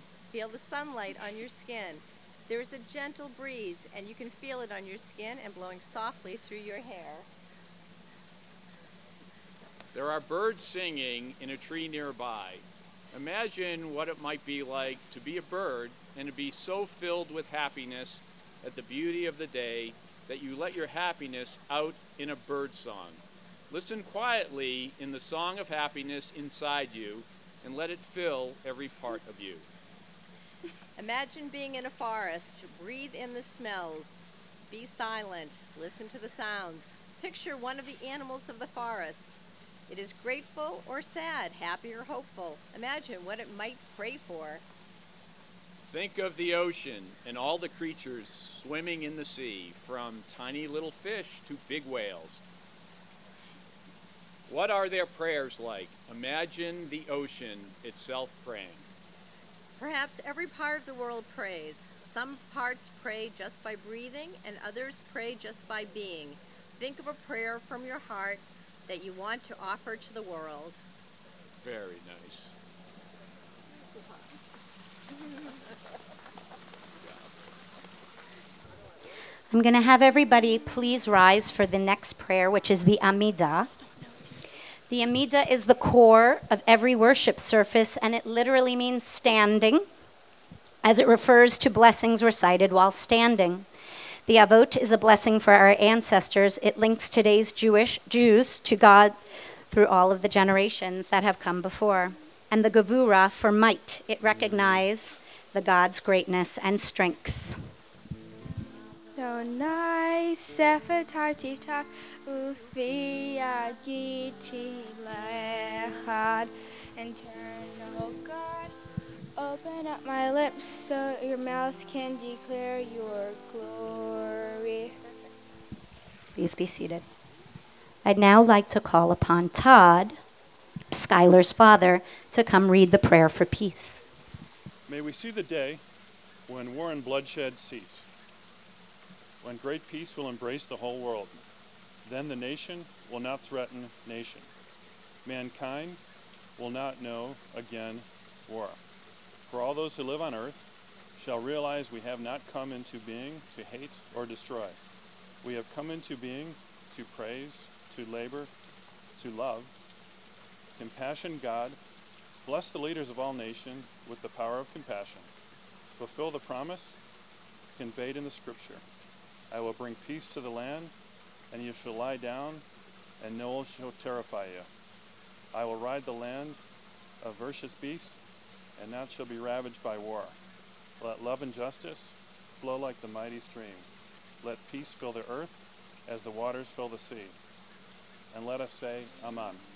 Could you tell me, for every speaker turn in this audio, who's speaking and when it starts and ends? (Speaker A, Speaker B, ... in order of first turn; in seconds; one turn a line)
Speaker A: 0.3-7.3
Speaker B: 9.9-29.6
Speaker A: 31.0-39.3
Speaker A: 39.9-44.6
Speaker B: 45.9-52.4
Speaker B: 54.5-58.9
Speaker A: 59.8-70.8
Speaker B: 71.6-72.5
Speaker C: 79.5-83.7
Speaker D: 83.9-84.3
Speaker C: 84.9-89.9
Speaker C: 90.8-93.7
Speaker C: 94.3-99.2
Speaker C: 99.7-107.6
Speaker D: 109.2-118.7
Speaker D: 119.4-125.0
Speaker C: 126.3-127.0
Speaker C: 128.1-130.2
Speaker C: 130.9-134.1
Speaker E: 134.9-135.8
Speaker E: 136.5-138.1
Speaker E: 139.4-141.4
Speaker E: 142.1-144.5
Speaker E: 145.2-146.0
Speaker E: 146.6-148.8
Speaker E: 149.5-150.6
Speaker E: 151.2-154.8
Speaker E: 155.4-158.5
Speaker E: 159.2-159.7
Speaker E: 160.8-161.8
Speaker E: 162.4-165.3
Speaker E: 166.0-167.0
Speaker E: 167.8-168.8
Speaker E: 169.5-170.9
Speaker E: 171.5-172.6
Speaker E: 173.2-174.7
Speaker E: 175.5-176.6
Speaker E: 177.2-178.2
Speaker E: 178.8-180.4
Speaker E: 181.0-183.9
Speaker E: 184.4-185.5
Speaker E: 186.1-187.3
Speaker E: 188.3-189.6